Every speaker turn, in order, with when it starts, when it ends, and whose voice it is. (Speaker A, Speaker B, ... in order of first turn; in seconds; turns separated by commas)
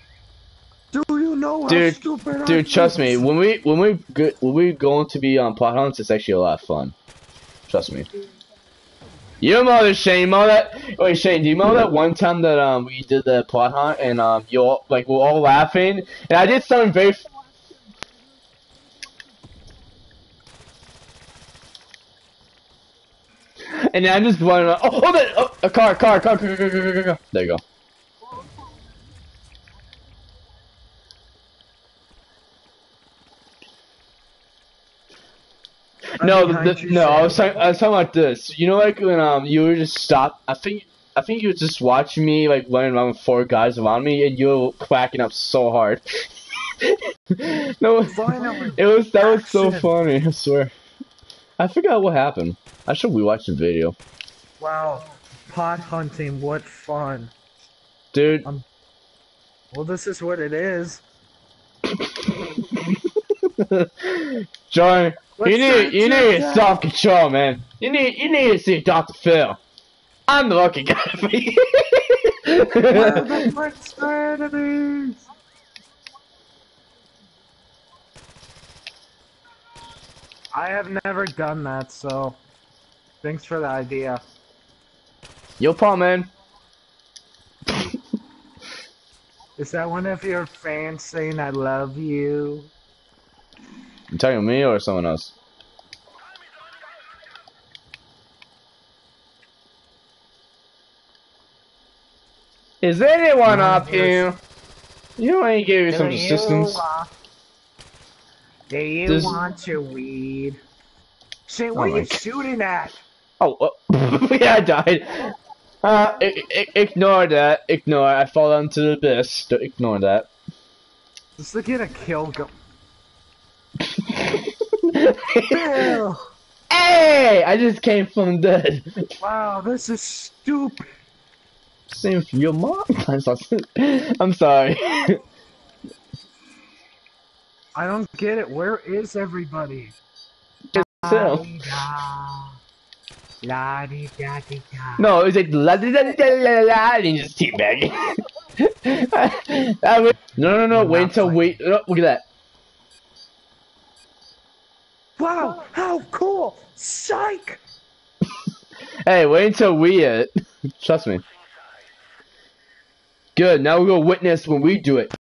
Speaker A: 0.9-3.3, Speaker B: 1.7-6.9, Speaker B: 7.7-8.1, Speaker B: 9.4-17.2, Speaker B: 23.7-27.6, Speaker A: 36.2-37.7, Speaker B: 36.2-50.7, Speaker A: 48.1-49.9, Speaker B: 51.6-54.0, Speaker A: 54.6-57.3, Speaker B: 58.1-58.5, Speaker A: 59.7-61.0, Speaker B: 63.4-69.6, Speaker A: 65.4-66.8, Speaker B: 70.3-73.5, Speaker A: 72.9-75.2, Speaker A: 80.5-82.4, Speaker A: 83.2-84.2, Speaker B: 85.6-86.3, Speaker A: 89.6-92.7, Speaker B: 94.1-95.3, Speaker B: 102.8-104.4, Speaker A: 103.5-104.3, Speaker B: 105.2-106.8, Speaker A: 105.9-107.1, Speaker A: 108.7-110.6, Speaker B: 109.1-109.3, Speaker A: 111.5-113.0, Speaker B: 111.7-112.2, Speaker B: 113.4-120.3, Speaker A: 121.4-122.5, Speaker B: 123.9-126.0, Speaker A: 125.4-126.2, Speaker B: 126.7-129.1, Speaker A: 129.2-130.9, Speaker B: 131.9-135.2, Speaker A: 137.7-139.9, Speaker B: 140.7-141.6, Speaker A: 140.7-142.5, Speaker A: 143.4-145.1, Speaker B: 145.0-152.2, Speaker A: 150.7-151.6, Speaker A: 155.2-157.6, Speaker B: 159.0-161.2, Speaker B: 163.3-165.1